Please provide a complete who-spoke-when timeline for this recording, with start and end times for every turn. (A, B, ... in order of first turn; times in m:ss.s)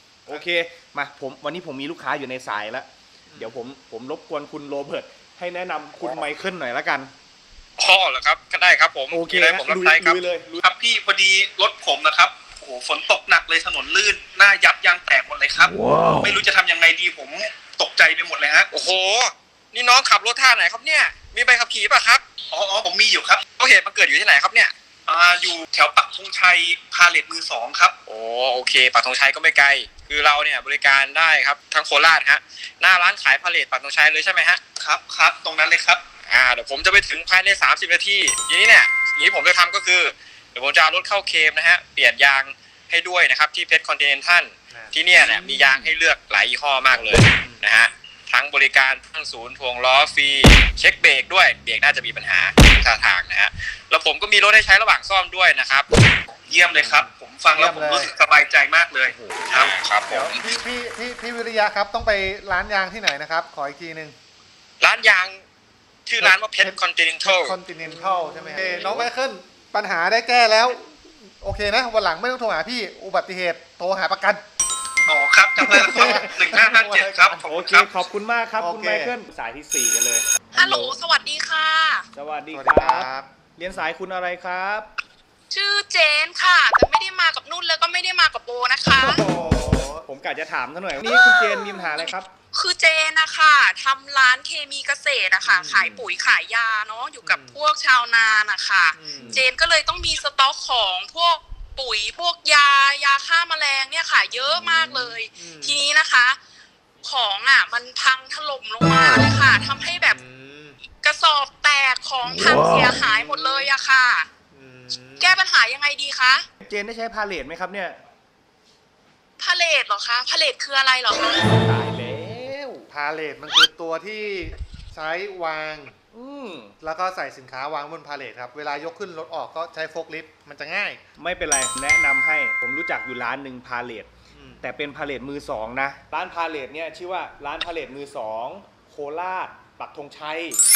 0:00.3-0:07.1 A
0:03.3-0:03.6 B
0:07.8-0:10.2 C
0:09.1-0:10.6 A
0:10.6-0:18.7 D
0:18.7-0:22.2 C
0:22.5-0:23.4 D
0:23.6-0:24.7 C
0:25.1-0:28.0 D
0:28.1-0:34.6 C
0:34.8-0:36.0 D
0:36.3-0:55.9 C
0:44.7-0:45.0 B
0:45.2-0:45.9 A
0:56.5-0:59.1 D
0:56.7-0:58.1 B
0:59.0-0:59.4 A
0:59.5-1:00.4 C
0:59.5-1:04.2 B
1:04.8-1:05.4 C
1:06.1-1:07.6 C
1:06.2-1:14.4 B
1:07.9-1:09.1 A
1:15.1-1:17.6 D
1:15.6-1:17.4 B
1:17.4-1:21.0 A
1:18.6-1:19.2 B
1:20.5-1:22.1 E
1:22.1-1:24.9 A
1:22.5-1:23.9 B
1:25.5-1:29.2 E
1:29.0-1:32.3 A
1:29.0-1:30.1 B
1:31.0-1:46.4 E
1:35.4-1:36.0 B
1:37.2-1:37.6 B
1:39.0-1:39.4 B
1:39.2-1:39.4 A
1:45.4-1:45.8 B
1:47.0-1:50.2 E
1:50.0-1:50.8 B
1:51.0-1:54.3 E
1:53.2-1:53.6 A
1:54.5-1:55.4 B
1:55.2-1:56.4 E
1:56.6-1:58.0 A
1:59.4-2:01.4 E
2:01.5-2:02.9 A
2:02.9-2:06.0 B
2:06.1-2:06.7 A
2:06.8-2:11.0 B
2:11.2-2:14.1 A
2:14.3-2:14.6 B
2:14.6-2:20.6 A